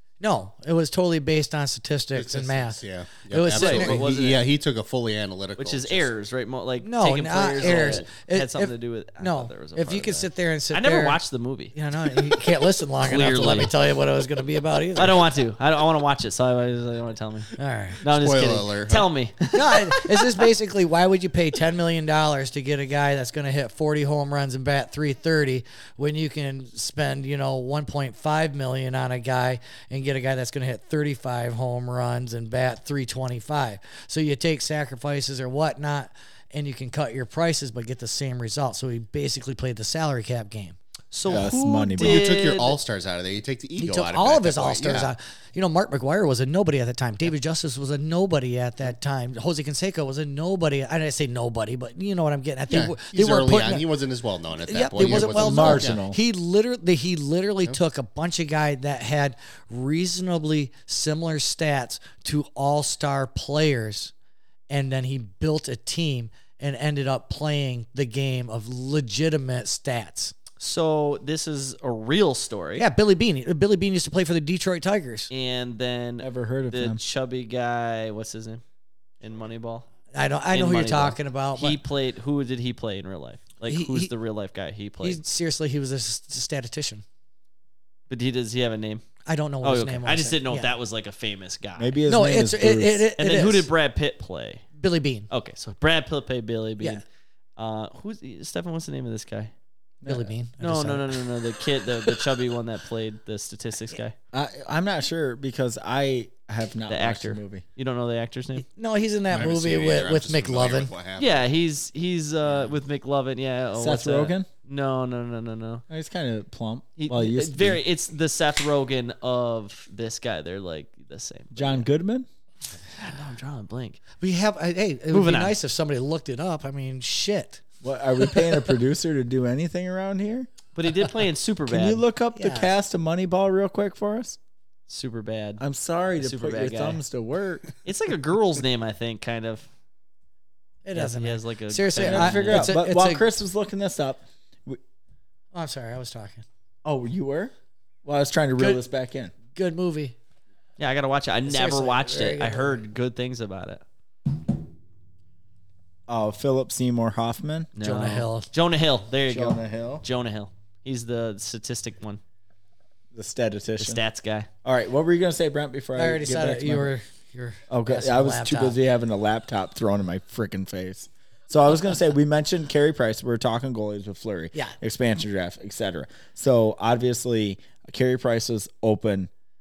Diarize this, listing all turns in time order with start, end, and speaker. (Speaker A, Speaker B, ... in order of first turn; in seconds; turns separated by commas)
Speaker A: 0.2-4.0, Speaker B: 2.1-6.1, Speaker C: 3.5-4.4, Speaker C: 5.6-13.7, Speaker A: 6.8-11.2, Speaker B: 7.6-8.1, Speaker A: 11.7-15.2, Speaker C: 14.9-20.4, Speaker A: 17.6-18.0, Speaker B: 18.1-19.1, Speaker A: 19.5-40.8, Speaker C: 41.1-42.8, Speaker D: 41.3-42.3, Speaker B: 41.3-45.1, Speaker A: 43.8-53.9, Speaker B: 52.7-56.0, Speaker A: 54.6-64.1, Speaker D: 55.0-56.2, Speaker A: 64.7-70.3, Speaker C: 70.6-72.9, Speaker A: 72.8-75.3, Speaker C: 75.3-78.6, Speaker D: 76.2-77.0, Speaker C: 79.2-79.9, Speaker A: 80.1-81.8, Speaker C: 80.5-85.2, Speaker A: 83.7-84.1, Speaker A: 85.0-87.0, Speaker C: 88.1-89.0, Speaker A: 89.3-90.7, Speaker C: 89.6-92.0, Speaker D: 91.8-93.1, Speaker A: 92.1-93.7, Speaker C: 93.2-94.6, Speaker A: 94.8-95.3, Speaker C: 95.3-97.0, Speaker C: 97.6-99.5, Speaker D: 100.0-100.3, Speaker A: 100.1-101.3, Speaker C: 100.6-104.2, Speaker D: 104.3-107.6, Speaker C: 106.9-108.7, Speaker A: 108.7-110.9, Speaker B: 109.3-111.4, Speaker C: 111.2-115.8, Speaker D: 113.8-114.5, Speaker D: 115.9-117.8, Speaker C: 117.0-121.9, Speaker D: 121.5-122.3, Speaker C: 123.0-124.0, Speaker A: 124.2-127.6, Speaker C: 125.1-125.6, Speaker D: 127.8-130.5, Speaker C: 130.8-132.0, Speaker D: 131.7-134.4, Speaker A: 132.3-132.7, Speaker C: 134.9-135.6, Speaker D: 135.6-137.7, Speaker C: 136.2-137.0, Speaker C: 137.8-139.7, Speaker A: 140.8-143.2, Speaker C: 140.9-142.7, Speaker D: 142.0-144.8, Speaker A: 145.5-146.4, Speaker D: 146.8-147.5, Speaker D: 148.1-149.3, Speaker A: 148.6-148.8, Speaker A: 149.5-150.2, Speaker C: 150.8-153.8, Speaker A: 151.5-152.8, Speaker D: 156.1-157.7, Speaker C: 157.8-162.2, Speaker A: 157.8-158.5, Speaker D: 159.3-160.1, Speaker D: 163.1-164.0, Speaker C: 163.8-164.5, Speaker D: 164.6-166.9, Speaker A: 166.0-168.8, Speaker D: 167.7-179.3